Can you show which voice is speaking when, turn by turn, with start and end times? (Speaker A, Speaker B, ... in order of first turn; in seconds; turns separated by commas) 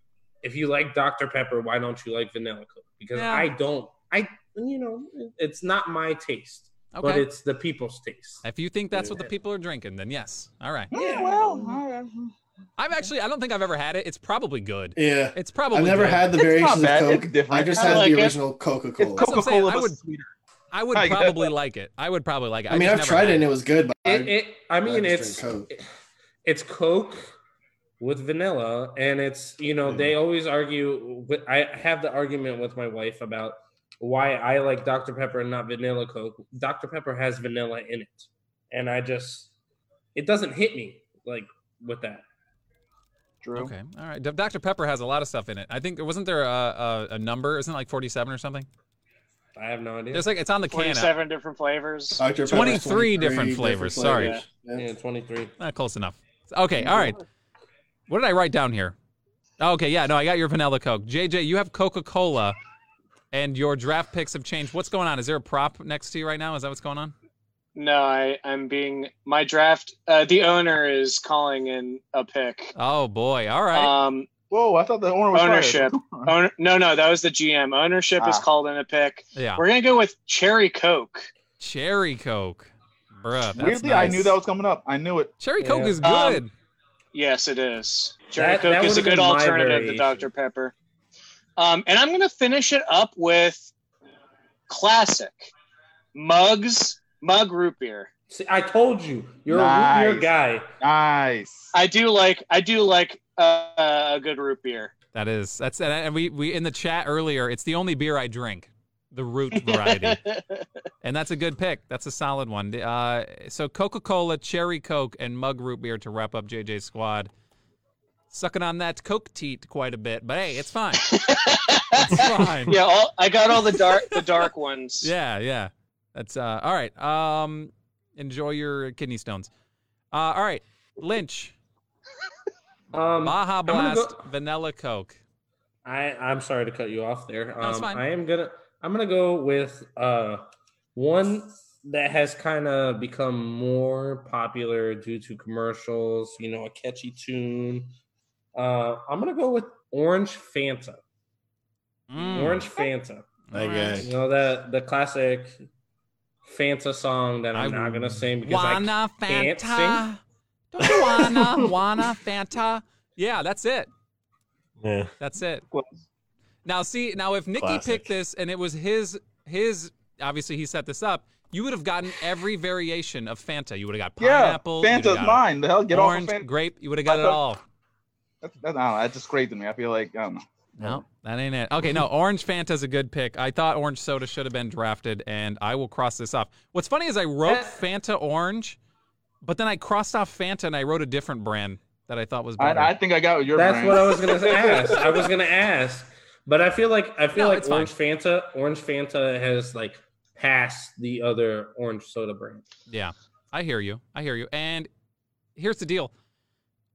Speaker A: 0.4-8.4, Speaker B: 3.1-3.5, Speaker B: 6.9-7.2, Speaker B: 8.4-10.9, Speaker A: 10.9-11.8, Speaker C: 10.9-12.3, Speaker B: 12.8-16.3, Speaker D: 14.9-19.3, Speaker C: 16.4-18.2, Speaker E: 17.7-18.4, Speaker C: 19.0-20.3, Speaker B: 19.2-20.0, Speaker B: 20.7-23.5, Speaker C: 20.9-21.5, Speaker D: 22.7-25.7, Speaker A: 24.1-25.8, Speaker A: 26.4-27.3, Speaker A: 28.0-39.5, Speaker D: 29.8-30.1, Speaker A: 40.1-42.2, Speaker C: 43.4-43.7, Speaker B: 43.5-48.7, Speaker A: 49.5-50.3, Speaker B: 50.1-51.1, Speaker E: 50.7-52.4, Speaker D: 52.2-54.9, Speaker B: 52.5-54.4, Speaker E: 54.1-54.4, Speaker A: 54.7-55.5, Speaker B: 55.6-57.2, Speaker D: 56.8-57.1, Speaker B: 58.1-59.0, Speaker B: 59.6-62.5, Speaker B: 63.3-67.1, Speaker E: 67.8-72.7, Speaker B: 72.8-73.9, Speaker E: 73.7-74.3, Speaker C: 74.5-76.3, Speaker E: 75.3-81.3, Speaker C: 78.2-78.4, Speaker B: 79.3-79.6, Speaker B: 81.6-84.4, Speaker C: 83.5-85.3, Speaker B: 85.4-86.5, Speaker A: 85.6-86.0, Speaker E: 86.0-86.4, Speaker E: 87.1-90.7, Speaker A: 88.3-90.3, Speaker E: 91.6-93.7, Speaker E: 94.7-95.5, Speaker E: 96.1-98.1, Speaker A: 98.3-100.7, Speaker C: 99.5-101.7, Speaker E: 101.7-104.9, Speaker B: 105.1-110.2, Speaker E: 109.5-110.6, Speaker B: 111.0-117.3, Speaker B: 118.3-121.1, Speaker E: 121.0-125.1, Speaker B: 121.9-122.8, Speaker B: 123.7-124.2, Speaker B: 125.0-129.5, Speaker B: 130.1-131.5, Speaker A: 132.9-134.2, Speaker B: 133.2-135.2, Speaker A: 135.8-147.9, Speaker B: 137.6-138.0, Speaker A: 148.5-151.0, Speaker B: 152.1-152.7, Speaker A: 152.2-153.3, Speaker B: 153.5-154.0, Speaker D: 153.5-154.1, Speaker A: 154.0-155.6, Speaker A: 156.4-160.1, Speaker B: 157.5-160.2, Speaker B: 160.7-163.9, Speaker D: 160.8-161.7, Speaker D: 164.8-165.1, Speaker B: 165.2-165.6, Speaker C: 165.7-166.0, Speaker B: 166.6-177.6, Speaker D: 167.6-168.1, Speaker C: 174.2-176.5, Speaker C: 177.1-177.4, Speaker C: 178.4-180.4, Speaker B: 180.8-188.8, Speaker B: 189.4-192.9, Speaker C: 192.6-195.3, Speaker A: 193.5-202.6, Speaker B: 197.3-197.9, Speaker B: 202.9-204.9, Speaker B: 205.6-206.1